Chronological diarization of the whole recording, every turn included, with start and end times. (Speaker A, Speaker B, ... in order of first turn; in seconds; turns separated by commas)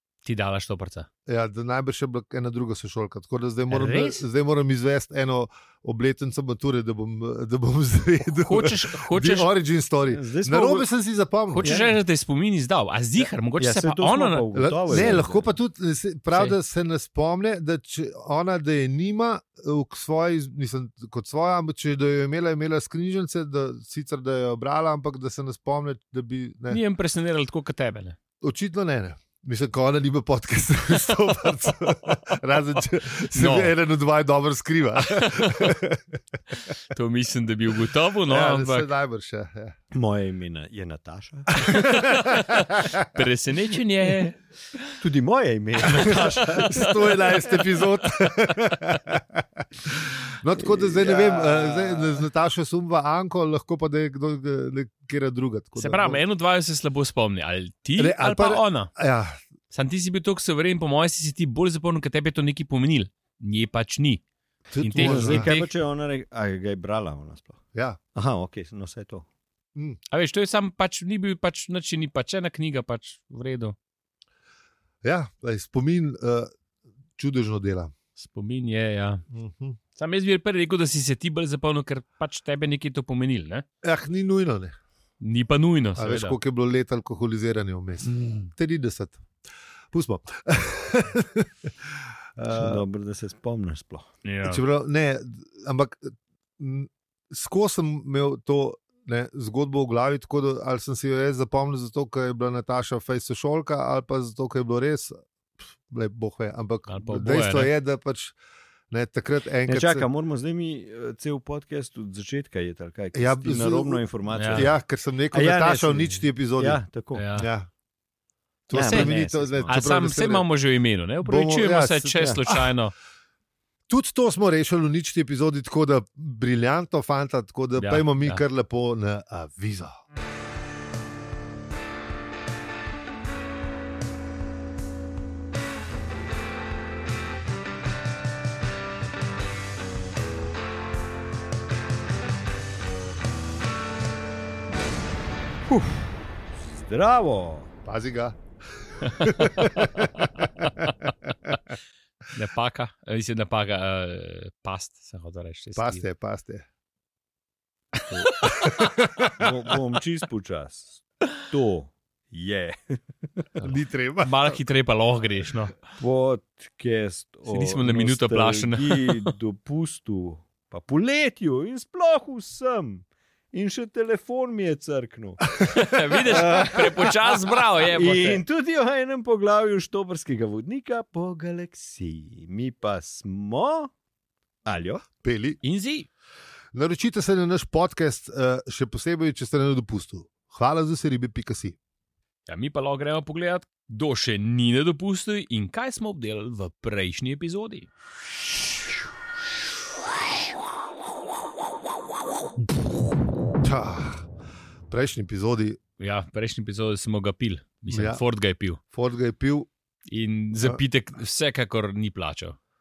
Speaker A: 0.2-1.1, Speaker B: 1.3-11.8, Speaker A: 3.7-4.2, Speaker A: 8.3-9.5, Speaker C: 10.1-10.9, Speaker A: 11.5-15.2, Speaker C: 11.6-11.9, Speaker C: 13.6-15.5, Speaker B: 14.6-26.8, Speaker A: 26.7-28.2, Speaker B: 28.4-36.0, Speaker A: 33.4-33.7, Speaker A: 35.2-35.7, Speaker A: 36.9-38.9, Speaker B: 38.3-39.8, Speaker C: 39.9-42.0, Speaker B: 41.6-43.2, Speaker A: 42.0-44.8, Speaker C: 45.0-47.2, Speaker B: 45.9-56.2, Speaker A: 46.0-47.0, Speaker C: 50.6-52.2, Speaker A: 55.8-58.9, Speaker B: 58.0-59.4, Speaker A: 59.7-64.2, Speaker B: 64.7-65.5, Speaker A: 64.8-65.7, Speaker C: 65.0-67.6, Speaker B: 67.7-68.0, Speaker C: 68.2-69.3, Speaker B: 69.8-70.0, Speaker A: 70.1-73.8, Speaker B: 75.0-76.5, Speaker B: 77.2-78.0, Speaker A: 78.2-79.2, Speaker B: 79.3-79.8, Speaker A: 80.0-83.7, Speaker B: 83.8-84.8, Speaker A: 85.2-86.4, Speaker B: 86.0-89.2, Speaker A: 88.0-88.5, Speaker B: 89.9-92.8, Speaker C: 92.5-94.1, Speaker A: 94.2-94.6, Speaker B: 94.5-105.2, Speaker B: 105.9-108.4, Speaker A: 106.9-107.7, Speaker B: 108.9-110.0, Speaker C: 109.7-114.8, Speaker B: 113.1-116.8, Speaker A: 114.3-114.7, Speaker C: 115.3-117.2, Speaker A: 117.2-117.5, Speaker B: 117.3-117.7, Speaker B: 118.7-120.5, Speaker C: 118.7-119.8, Speaker A: 118.8-122.9, Speaker B: 121.2-122.7, Speaker B: 123.9-129.9, Speaker A: 127.8-128.4, Speaker C: 145.7-146.1, Speaker C: 146.8-147.7, Speaker B: 147.8-148.4, Speaker B: 148.9-150.8, Speaker A: 149.0-150.9, Speaker A: 152.3-156.0, Speaker B: 155.8-156.7, Speaker A: 158.2-158.7, Speaker B: 158.4-159.5, Speaker C: 159.4-163.4, Speaker B: 163.6-164.6, Speaker A: 164.2-165.8, Speaker C: 166.0-175.7, Speaker A: 167.5-169.3, Speaker A: 175.6-178.4, Speaker C: 176.2-177.3, Speaker C: 177.9-183.9, Speaker C: 184.7-185.1, Speaker B: 185.2-185.6, Speaker A: 185.6-186.1, Speaker B: 186.7-191.8, Speaker A: 192.5-197.9, Speaker B: 203.6-204.3, Speaker B: 204.9-205.8, Speaker A: 206.0-208.8, Speaker B: 207.9-208.2, Speaker B: 208.9-209.7, Speaker A: 210.1-212.6